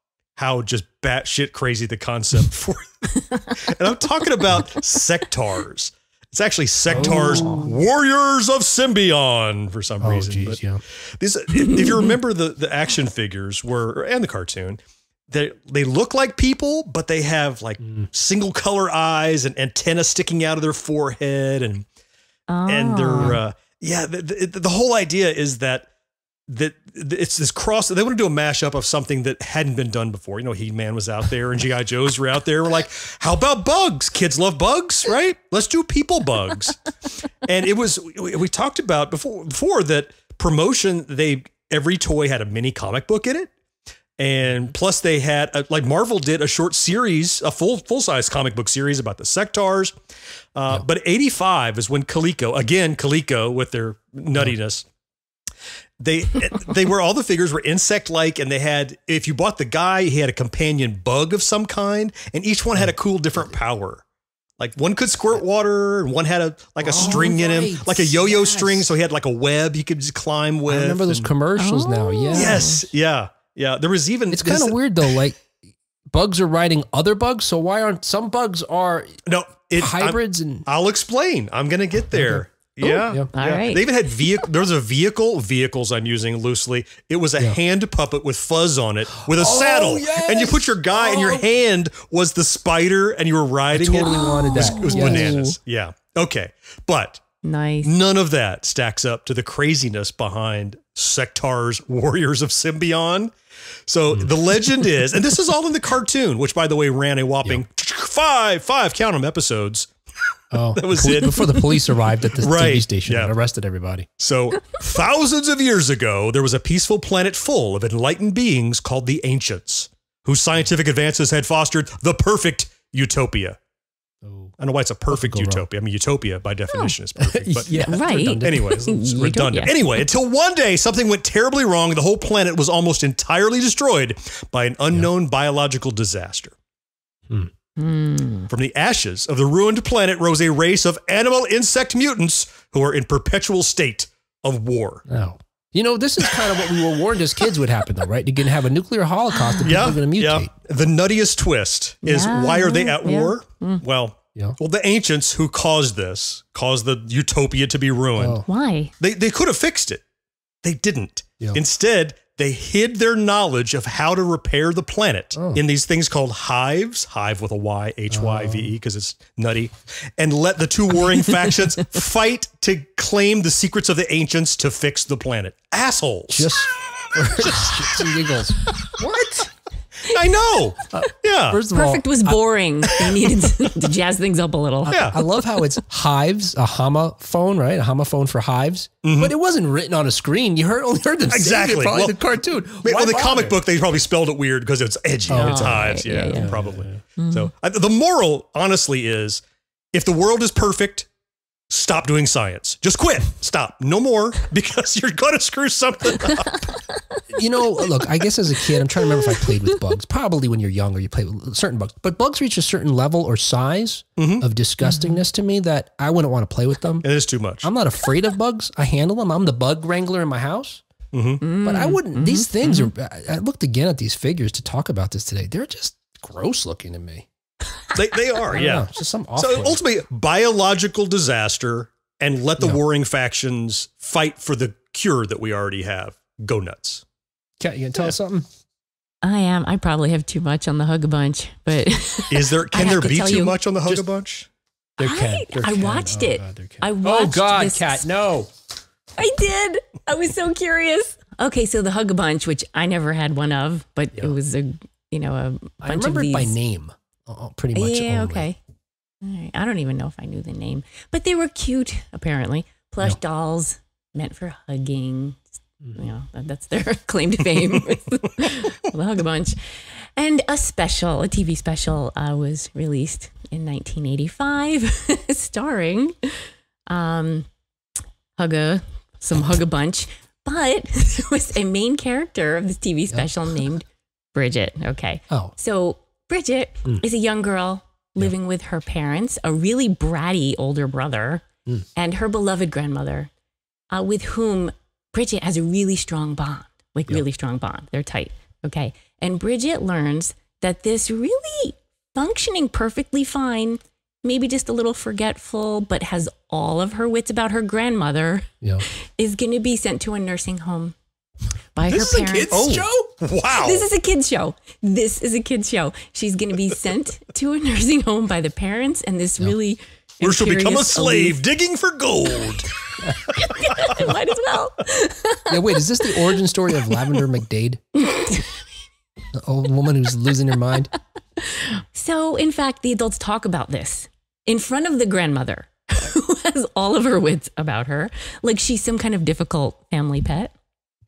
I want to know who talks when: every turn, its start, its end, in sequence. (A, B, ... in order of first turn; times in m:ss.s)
0:00.4-0:21.9 A
0:06.9-0:07.7 B
0:07.0-0:07.7 C
0:10.0-0:10.8 B
0:11.5-0:12.1 C
0:17.8-0:18.1 B
0:22.5-0:23.4 C
0:22.7-0:25.9 A
0:26.5-0:36.8 A
0:37.4-0:43.5 A
0:44.2-0:49.9 A
0:50.6-0:54.9 A
0:56.0-1:04.0 A
1:04.6-1:11.3 A
1:06.8-1:08.9 B
1:10.7-1:12.7 B
1:11.6-1:12.9 C
1:12.3-1:15.2 A
1:14.3-1:15.4 B
1:16.1-1:19.2 B
1:19.3-1:37.2 A
1:19.8-1:20.7 B
1:22.1-1:22.4 B
1:22.8-1:23.9 C
1:29.2-1:31.5 B
1:33.7-1:35.6 B
1:34.1-1:35.4 C
1:37.4-1:37.9 C
1:37.8-1:43.3 A
1:43.9-1:49.9 A
1:50.5-1:54.1 B
1:50.8-1:51.6 A
1:52.4-1:53.3 A
1:54.2-2:03.6 A
2:04.2-2:04.5 B
2:04.6-2:16.5 A
2:05.1-2:05.6 B
2:07.2-2:08.8 B
2:07.9-2:10.0 C
2:17.8-2:18.5 C
2:18.5-2:25.0 A
2:25.1-2:30.5 B
2:29.6-2:38.4 A
2:32.0-2:33.8 C
2:38.2-2:38.5 B
2:38.5-2:38.9 C
2:39.0-2:40.0 A
2:40.6-2:56.6 A
2:45.4-2:45.6 B
2:48.1-2:48.7 B
2:56.3-2:59.5 B
3:00.0-3:01.6 A
3:00.9-3:02.4 B
3:01.7-3:05.2 C
3:04.9-3:05.2 A
3:04.9-3:13.6 B
3:09.0-3:09.3 A
3:11.3-3:12.2 A
3:12.8-3:21.1 A
3:15.3-3:17.0 B
3:15.4-3:16.5 C
3:17.2-3:17.5 C
3:21.7-3:26.8 A
3:26.3-3:27.2 C
3:27.3-3:37.1 B
3:34.2-3:34.5 A
3:34.9-3:35.2 C
3:37.0-3:37.7 A
3:37.6-3:40.8 B
3:41.1-3:41.4 A
3:41.4-3:42.9 C
3:41.6-3:47.3 B
3:47.9-3:57.0 A
3:48.5-3:49.8 B
3:57.6-3:58.5 B
3:59.2-4:03.6 C
4:02.3-4:04.5 A
4:05.0-4:08.5 B
4:05.0-4:08.1 C
4:09.2-4:16.5 C
4:15.8-4:18.5 B
4:17.8-4:18.6 C
4:19.2-4:37.5 C
4:38.4-4:51.4 C
4:45.3-4:45.5 B
4:52.0-4:53.3 C
4:53.9-5:11.0 C
5:11.8-5:12.8 C
5:11.9-5:13.1 B
5:12.5-5:13.9 A
5:13.5-5:21.4 C
5:20.2-5:22.7 A
5:23.2-5:26.2 C
5:25.5-5:28.0 B
5:28.0-5:28.6 C
5:29.3-5:30.9 B
5:31.4-5:40.5 C